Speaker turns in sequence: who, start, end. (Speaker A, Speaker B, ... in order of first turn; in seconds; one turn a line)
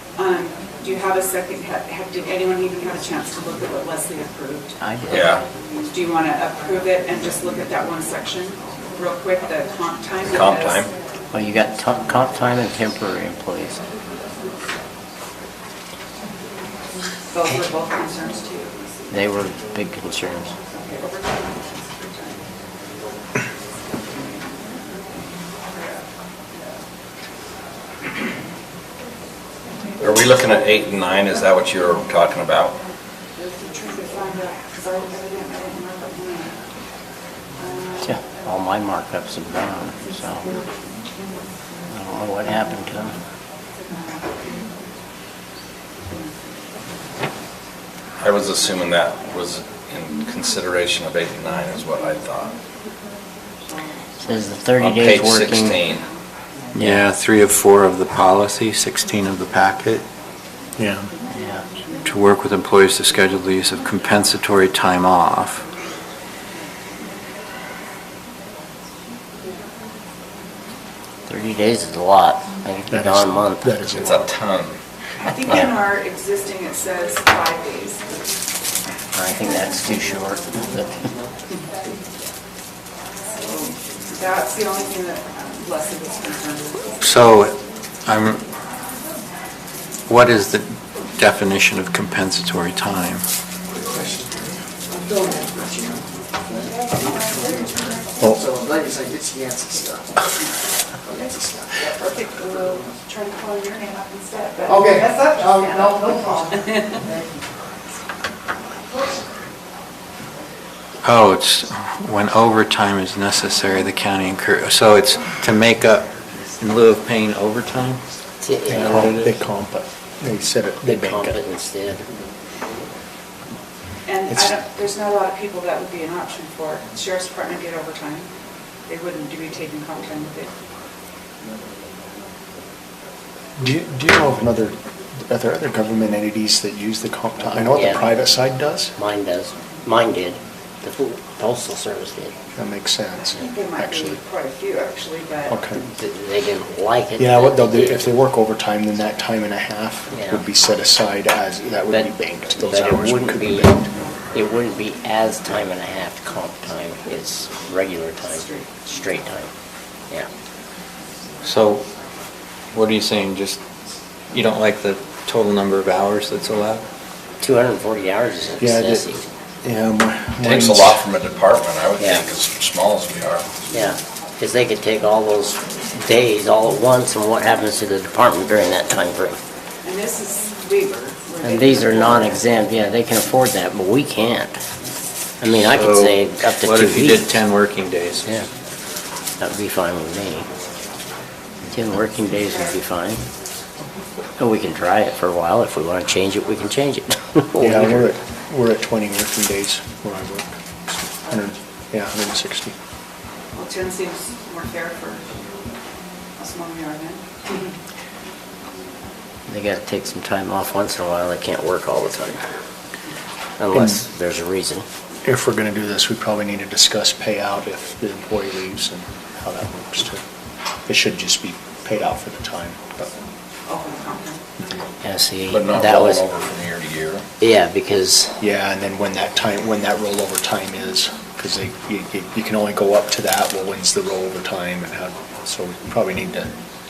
Speaker A: 0.2-4.8
Speaker B: 4.8-5.3
Speaker C: 5.1-5.4
Speaker A: 5.9-10.8
Speaker C: 10.3-10.9
Speaker B: 11.3-13.8
Speaker A: 17.3-18.7
Speaker B: 19.1-20.5
Speaker A: 20.8-22.4
Speaker C: 30.0-32.8
Speaker A: 33.5-36.6
Speaker A: 37.6-38.0
Speaker B: 38.0-40.5
Speaker B: 41.9-43.2
Speaker C: 48.2-52.5
Speaker B: 54.2-55.8
Speaker C: 54.8-56.1
Speaker D: 56.8-60.0
Speaker B: 56.8-57.1
Speaker E: 60.8-61.1
Speaker B: 61.4-61.6
Speaker D: 62.0-65.6
Speaker B: 71.3-73.7
Speaker E: 72.9-74.2
Speaker C: 73.9-74.8
Speaker A: 75.2-78.0
Speaker B: 79.1-81.0
Speaker A: 84.1-86.8
Speaker D: 87.0-87.5
Speaker D: 88.1-88.4
Speaker D: 90.1-93.2
Speaker E: 98.2-98.5
Speaker F: 98.6-100.0
Speaker A: 101.9-106.2
Speaker F: 105.4-106.2
Speaker D: 111.0-118.0
Speaker B: 118.4-119.2
Speaker E: 118.7-121.4
Speaker D: 118.7-119.4
Speaker B: 120.9-122.0
Speaker A: 124.1-128.3
Speaker E: 124.3-124.6
Speaker A: 128.9-130.5
Speaker E: 133.6-138.9
Speaker B: 137.5-138.1
Speaker B: 139.0-142.3
Speaker E: 142.6-144.2
Speaker A: 143.4-145.6
Speaker E: 145.5-145.8
Speaker B: 145.8-148.1
Speaker E: 147.2-153.9
Speaker B: 150.1-150.4
Speaker B: 151.9-153.7
Speaker B: 154.3-159.5
Speaker D: 161.4-161.8
Speaker D: 162.7-163.6
Speaker D: 164.3-166.8
Speaker B: 167.4-169.2
Speaker E: 168.6-169.1
Speaker E: 169.6-171.0
Speaker C: 170.4-173.5
Speaker B: 172.0-172.2
Speaker B: 173.7-179.4
Speaker A: 179.8-182.4
Speaker B: 181.4-184.6
Speaker B: 185.4-187.3
Speaker D: 185.5-188.3
Speaker B: 189.4-190.5
Speaker B: 191.7-193.2
Speaker B: 194.4-198.1
Speaker E: 197.6-200.5
Speaker E: 201.1-202.8
Speaker A: 203.6-205.3
Speaker A: 206.4-207.3
Speaker B: 209.5-212.4
Speaker B: 213.6-214.9
Speaker E: 213.7-214.0
Speaker E: 215.2-220.2
Speaker E: 220.9-223.1
Speaker A: 223.7-224.4
Speaker B: 225.0-226.2
Speaker C: 225.5-227.3
Speaker B: 227.4-228.3
Speaker E: 228.4-236.5